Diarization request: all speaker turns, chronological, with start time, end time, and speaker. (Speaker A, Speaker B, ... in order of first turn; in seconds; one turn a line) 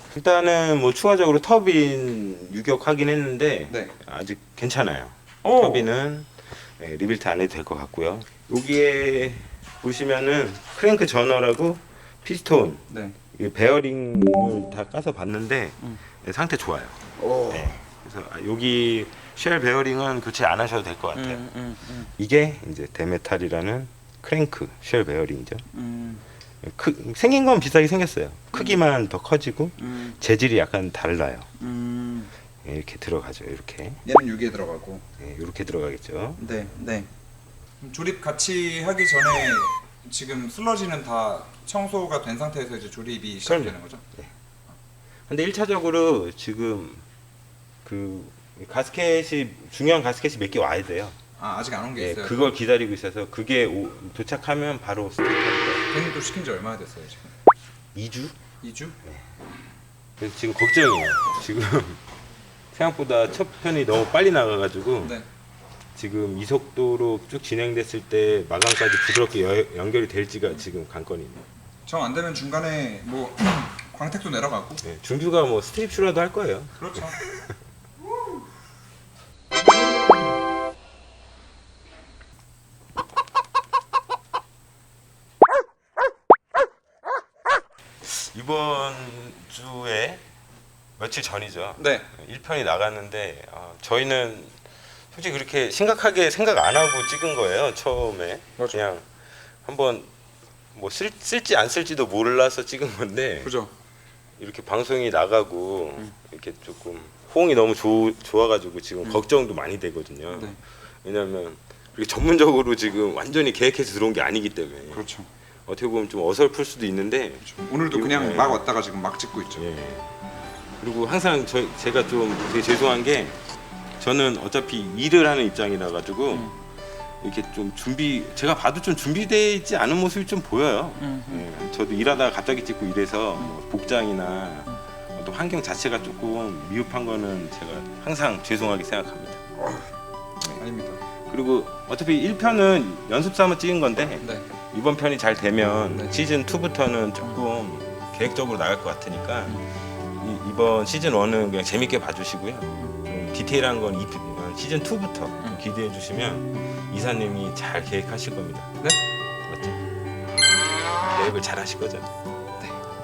Speaker A: 0.1-21.4
Speaker B: 3.7-3.9
Speaker B: 5.4-5.9
Speaker B: 12.9-13.2
Speaker B: 17.2-17.7
Speaker B: 21.1-22.1
Speaker A: 22.2-25.6
Speaker B: 25.7-26.2
Speaker A: 26.6-31.5
Speaker B: 28.5-28.8
Speaker B: 29.8-30.1
Speaker B: 31.6-32.3
Speaker A: 32.6-34.0
Speaker B: 34.0-35.0
Speaker A: 35.2-36.4
Speaker B: 36.4-37.1
Speaker B: 37.8-44.0
Speaker A: 43.5-44.3
Speaker A: 45.3-47.0
Speaker A: 47.8-51.1
Speaker B: 51.4-52.5
Speaker A: 52.0-55.8
Speaker B: 55.9-57.2
Speaker A: 57.9-58.3
Speaker B: 58.6-59.0
Speaker A: 60.2-62.0
Speaker A: 62.7-65.2
Speaker A: 65.9-71.4
Speaker B: 71.8-74.8
Speaker A: 74.8-77.4
Speaker B: 76.8-77.2
Speaker A: 88.0-90.2
Speaker A: 91.0-94.5
Speaker B: 91.8-92.1
Speaker A: 95.1-99.1
Speaker A: 99.6-100.1
Speaker A: 100.7-103.5
Speaker B: 103.4-103.7
Speaker A: 104.4-115.0
Speaker B: 110.3-110.6
Speaker B: 114.9-115.3
Speaker A: 115.7-118.6
Speaker B: 117.4-119.6
Speaker A: 119.6-120.1
Speaker A: 120.8-123.4
Speaker A: 124.0-126.5
Speaker A: 127.2-139.4
Speaker B: 131.0-131.4
Speaker B: 140.6-141.0
Speaker A: 141.3-158.7
Speaker B: 144.2-144.4
Speaker B: 145.9-146.2
Speaker A: 159.4-159.8
Speaker A: 161.0-162.1